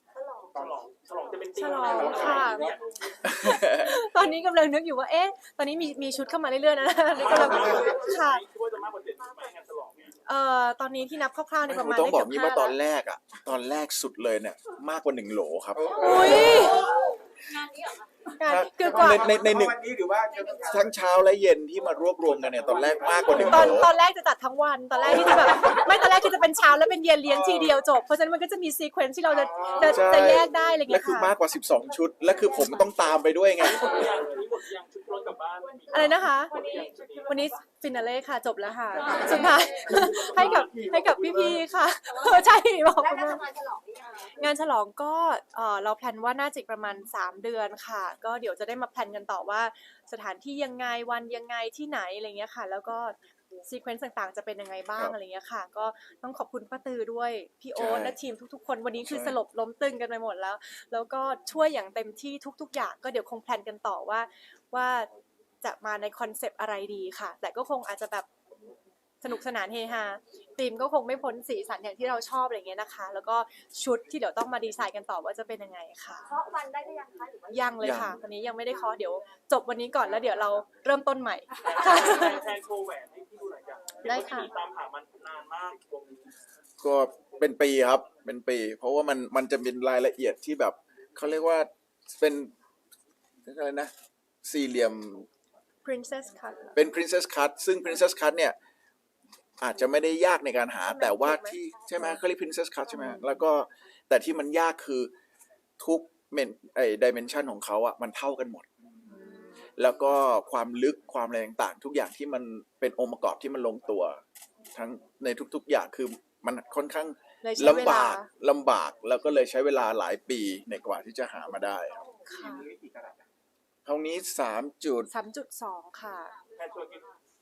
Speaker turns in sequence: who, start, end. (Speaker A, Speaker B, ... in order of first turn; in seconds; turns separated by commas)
Speaker A: 0.1-0.7, Speaker B: 0.5-3.2, Speaker C: 1.6-2.7, Speaker D: 1.8-2.7, Speaker C: 3.2-8.4, Speaker E: 3.3-3.9, Speaker B: 7.3-10.2, Speaker D: 7.3-7.8, Speaker C: 10.3-12.8, Speaker E: 11.7-16.6, Speaker D: 15.7-17.2, Speaker C: 16.0-16.9, Speaker A: 16.2-18.3, Speaker C: 18.4-19.4, Speaker E: 18.4-19.8, Speaker D: 18.8-21.0, Speaker A: 20.3-20.8, Speaker E: 20.6-23.9, Speaker D: 22.2-23.9, Speaker A: 23.0-23.4, Speaker C: 23.4-31.4, Speaker D: 25.2-25.7, Speaker D: 27.2-27.8, Speaker D: 29.3-30.4, Speaker E: 29.8-34.1, Speaker A: 32.5-33.0, Speaker B: 33.6-37.5, Speaker A: 35.6-37.6, Speaker C: 35.9-36.6, Speaker C: 37.3-43.4, Speaker A: 39.0-40.3, Speaker D: 39.0-41.6, Speaker B: 39.0-39.3, Speaker B: 39.9-40.8, Speaker A: 42.0-44.5, Speaker C: 44.2-65.1, Speaker E: 57.8-58.2, Speaker E: 59.0-59.4, Speaker C: 65.6-68.3, Speaker C: 69.2-76.4, Speaker A: 76.3-77.8, Speaker C: 77.5-82.4, Speaker E: 77.8-78.2, Speaker B: 81.6-86.3, Speaker C: 84.0-84.5, Speaker E: 86.8-92.5, Speaker E: 93.5-93.9, Speaker E: 94.4-95.3, Speaker C: 95.8-96.8, Speaker E: 96.8-98.6, Speaker E: 99.6-105.1, Speaker C: 100.9-102.2, Speaker C: 102.9-103.4, Speaker E: 105.8-108.7, Speaker C: 109.1-109.6, Speaker E: 109.8-114.2, Speaker E: 114.7-122.0, Speaker C: 117.4-118.3, Speaker A: 122.0-122.4, Speaker D: 122.2-123.3, Speaker C: 122.3-122.7, Speaker E: 123.8-125.1, Speaker C: 125.1-126.3, Speaker A: 126.3-127.1, Speaker B: 126.5-127.2